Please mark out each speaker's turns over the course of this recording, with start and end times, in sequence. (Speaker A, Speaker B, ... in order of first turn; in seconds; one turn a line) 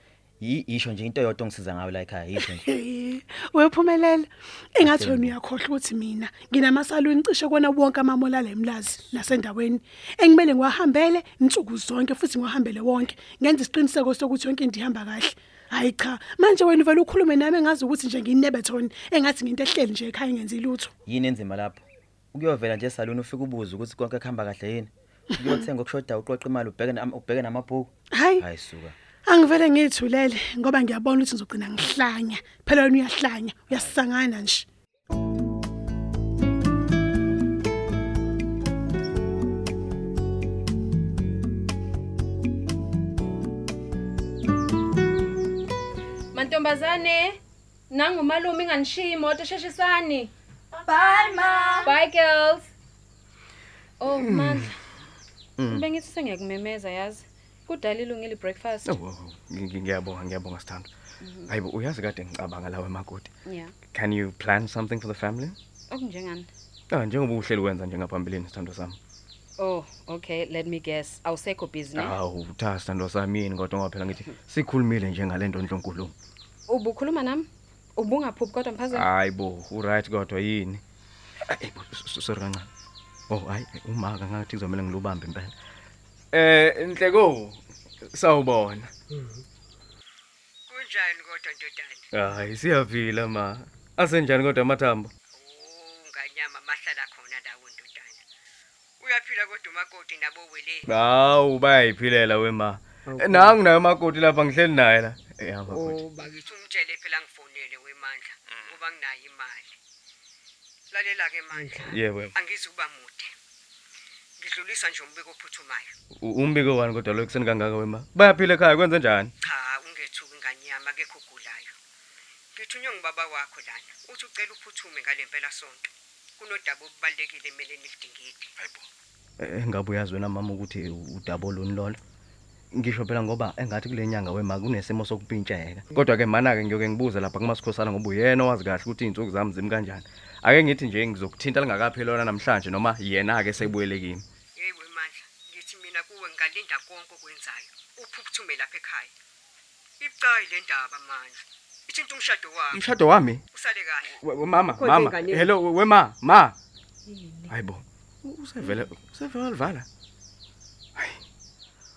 Speaker A: 0.4-2.6
Speaker B: 2.4-20.9
Speaker A: 4.8-5.3
Speaker A: 21.1-28.9
Speaker B: 28.1-28.4
Speaker B: 29.2-34.6
Speaker A: 33.7-34.0
Speaker C: 46.3-47.4
Speaker C: 47.9-50.3
Speaker C: 51.8-52.7
Speaker C: 54.0-54.7
Speaker D: 54.2-54.6
Speaker D: 55.6-55.8
Speaker C: 55.7-59.0
Speaker D: 58.9-60.9
Speaker C: 61.2-61.5
Speaker D: 61.5-63.3
Speaker C: 63.5-63.7
Speaker D: 63.9-65.5
Speaker C: 65.9-66.5
Speaker D: 66.9-69.0
Speaker C: 69.6-72.2
Speaker D: 71.9-76.1
Speaker C: 76.7-79.1
Speaker D: 78.9-80.8
Speaker D: 81.5-82.7
Speaker D: 83.3-85.5
Speaker D: 86.3-87.6
Speaker D: 88.1-88.9
Speaker E: 89.1-89.4
Speaker E: 90.7-92.0
Speaker D: 92.1-95.1
Speaker E: 95.3-98.2
Speaker E: 99.0-100.9
Speaker D: 100.9-106.0
Speaker E: 103.1-103.6
Speaker E: 105.7-109.8
Speaker E: 110.9-113.3
Speaker D: 111.8-112.3
Speaker E: 114.4-115.9
Speaker D: 116.2-119.3
Speaker E: 119.4-121.8
Speaker E: 122.5-128.5
Speaker D: 129.4-132.0
Speaker D: 132.7-144.2
Speaker E: 144.5-149.1
Speaker E: 150.0-152.8
Speaker D: 152.7-153.4
Speaker E: 153.5-155.5
Speaker D: 154.2-156.6
Speaker C: 157.1-157.5
Speaker D: 157.5-159.8
Speaker D: 160.9-161.2